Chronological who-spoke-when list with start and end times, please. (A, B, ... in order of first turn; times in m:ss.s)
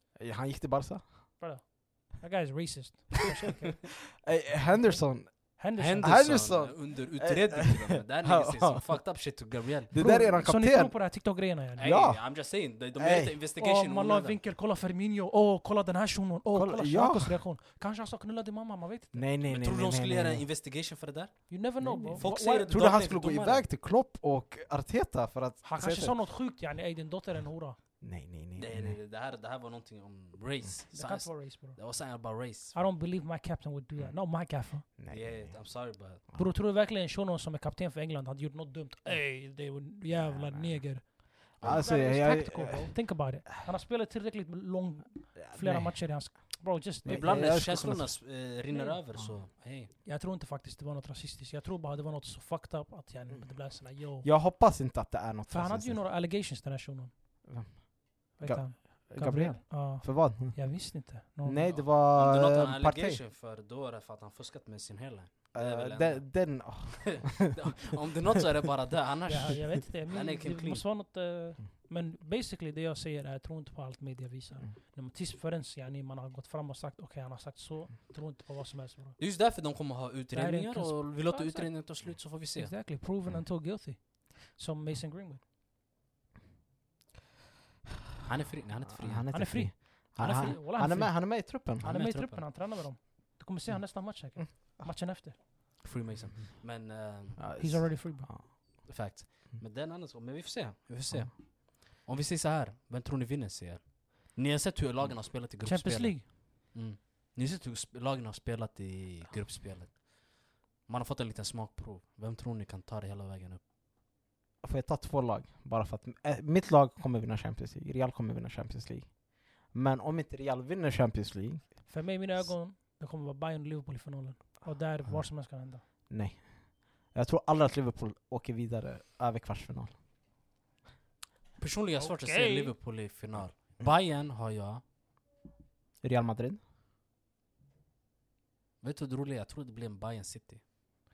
0:00.2-0:01.1 A
0:01.4-0:04.0 B
0:04.2-0:09.0 A
0:04.7-0:06.4 B
0:05.8-0:09.9 C
0:09.9-0:11.1 A
0:09.9-0:11.9 B
0:11.8-0:13.3 A
0:11.8-0:14.4 C
0:13.6-0:19.3 B
0:16.5-0:17.4 A
0:19.1-0:20.4 A
0:19.5-0:23.7 C
0:21.5-0:22.8 B
0:21.8-0:26.2 A
0:25.6-0:27.8 B
0:28.0-0:29.0 A
0:28.6-0:32.8 C
0:30.9-0:34.9 B
0:34.9-0:35.7 A
0:35.1-0:36.2 C
0:36.3-0:47.5 B
0:40.1-0:41.1 A
0:41.6-0:43.5 A
0:41.6-0:41.9 C
0:45.4-0:46.4 A
0:47.0-0:48.3 A
0:47.0-0:49.9 C
0:48.7-0:49.3 B
0:50.0-0:54.3 B
0:54.0-0:56.0 A
0:55.5-0:57.1 B
0:57.4-1:03.2 A
0:58.4-1:01.8 B
1:01.7-1:10.9 C
1:05.5-1:07.6 A
1:09.3-1:19.2 B
1:19.2-1:22.8 C
1:20.3-1:25.4 B
1:28.2-1:29.5 C
1:28.9-1:31.9 A
1:29.3-1:35.4 B
1:30.2-1:30.5 C
1:31.8-1:32.4 C
1:34.4-1:34.9 A
1:35.8-1:37.7 C
1:37.4-1:38.8 A
1:37.6-1:38.3 B
1:38.6-1:53.6 C
1:45.6-1:46.3 B
1:54.6-2:01.9 A
2:01.8-2:05.8 B
2:06.1-2:10.0 A
2:11.6-2:14.8 C
2:12.0-2:12.7 B
2:16.0-2:16.6 A
2:18.8-2:20.6 C